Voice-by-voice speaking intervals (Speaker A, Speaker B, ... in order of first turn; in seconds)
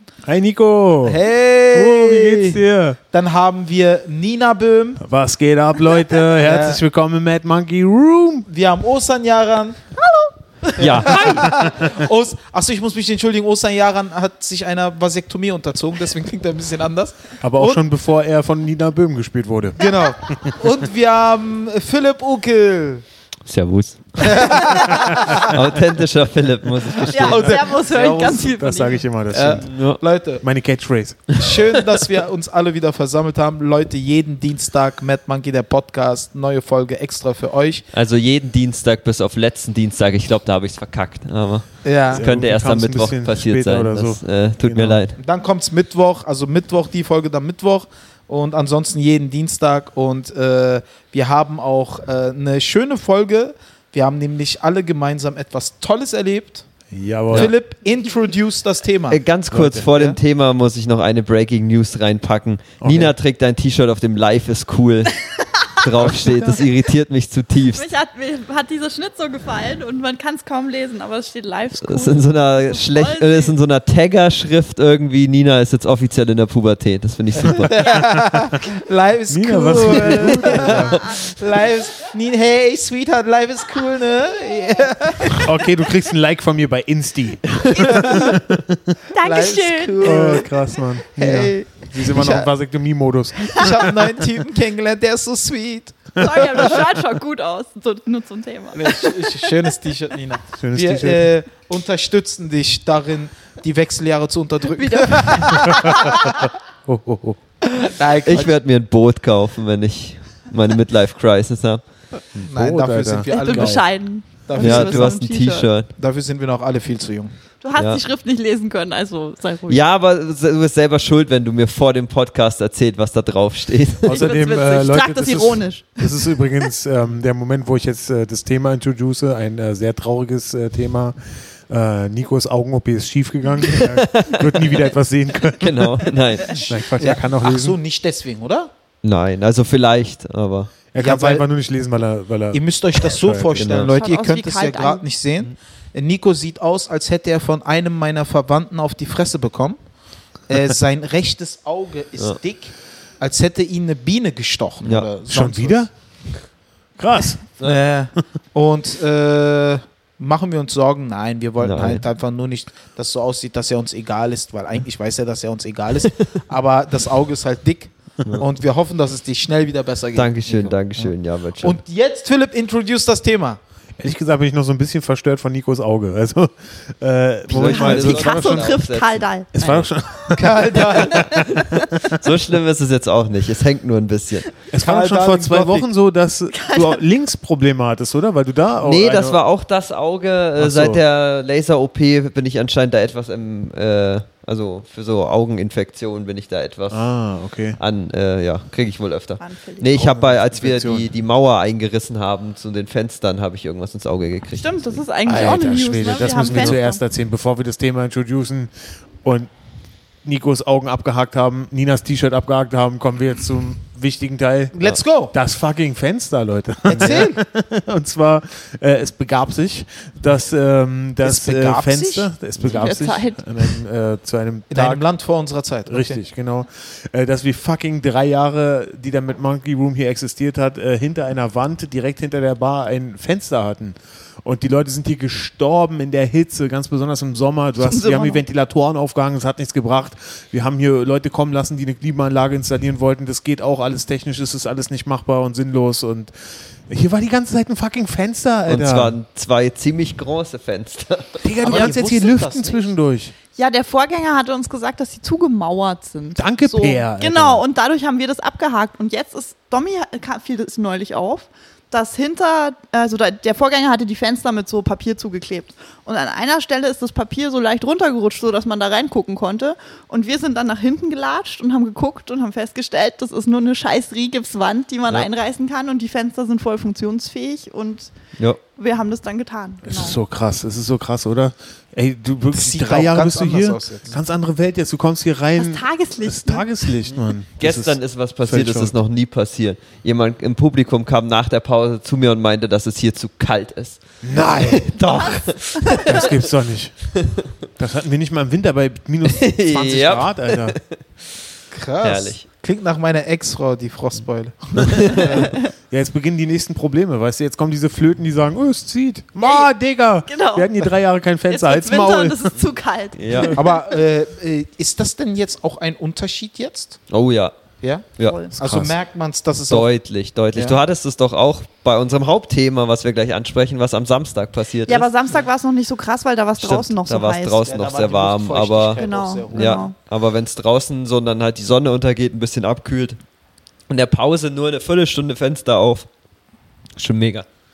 Speaker A: 0.2-1.2, 1.7-3.0, 5.0-8.5, 11.4-11.9, 17.4-20.5, 27.9-29.7, 30.4-31.4, 42.1-45.0, 56.9-57.5, 59.5-59.9, 62.8-63.1, 66.0-66.6, 77.6-78.4, 79.3-81.0, 85.3-89.0, 90.0-94.1, 96.2-96.9, 100.5-101.3, 105.8-106.3, 106.9-107.4, 112.4-113.8, 124.0-137.8, 140.9-143.8, 155.3-155.9, 157.0-157.5, 174.0-178.9, 179.5-182.2, 184.7-189.4, 190.6-191.0, 196.9-197.8, 199.9-201.1, 205.2-208.7, 209.2-209.5, 210.2-214.8, 215.3-225.0, 225.9-246.3, 246.9-249.2, 251.4-253.3, 256.4-257.6, 279.8-288.9, 294.2-294.9, 296.0-297.1, 297.8-300.8, 305.1-312.6, 318.5-318.9
Speaker B: 1.1-2.6, 3.1-5.0, 6.4-6.8, 8.5-10.0, 10.7-17.8, 19.8-23.0, 24.2-25.6, 27.1-28.4, 29.3-30.4, 31.4-37.8, 41.8-42.2, 45.2-56.7, 57.3-59.2, 59.9-60.2, 77.5-85.5, 87.9-88.3, 89.2-90.5, 91.2-92.5, 93.5-96.7, 98.7-106.2, 107.8-108.5, 112.4-115.2, 116.0-117.3, 137.0-138.7, 141.0-141.4, 142.5-149.8, 150.5-155.9, 157.6-171.1, 171.6-173.6, 180.3-181.5, 184.8-185.9, 214.7-215.3, 216.8-217.4, 221.2-222.3, 224.7-226.2, 251.6-252.9, 282.5-284.1, 301.7-305.4, 313.5-317.0, 317.8-319.9, 327.6-329.9
Speaker C: 10.8-11.6, 23.5-27.7, 29.6-30.0, 37.9-45.2, 59.1-65.2, 65.8-67.9, 71.8-77.8, 80.7-81.0, 108.2-111.8, 114.6-115.9, 119.7-124.3, 133.7-134.9, 135.6-136.7, 139.0-140.7, 143.6-143.9, 161.6-162.0, 170.2-171.8, 177.5-179.9, 182.2-184.5, 188.8-197.0, 197.8-205.0, 206.4-206.8, 248.7-251.8, 287.6-296.4, 299.3-300.8, 302.0-302.4, 304.8-305.4, 313.2-313.6, 317.1-317.5, 319.7-325.1, 326.6-329.0, 329.5-333.2, 333.9-336.1, 337.0-337.4
Speaker D: 27.1-29.0, 67.7-73.5, 79.9-81.1, 87.8-88.4, 89.1-90.4, 96.2-99.4, 104.7-106.5, 113.3-115.7, 117.6-119.8, 124.1-126.4, 143.9-145.1, 177.6-179.5, 181.0-181.7, 186.5-187.0, 199.4-199.9, 204.6-207.0, 222.6-223.7, 237.8-238.4, 253.6-278.1, 278.7-280.2, 285.6-286.7, 309.4-309.7, 310.3-310.9, 311.5-314.0, 318.2-318.5, 324.9-327.6, 329.0-329.9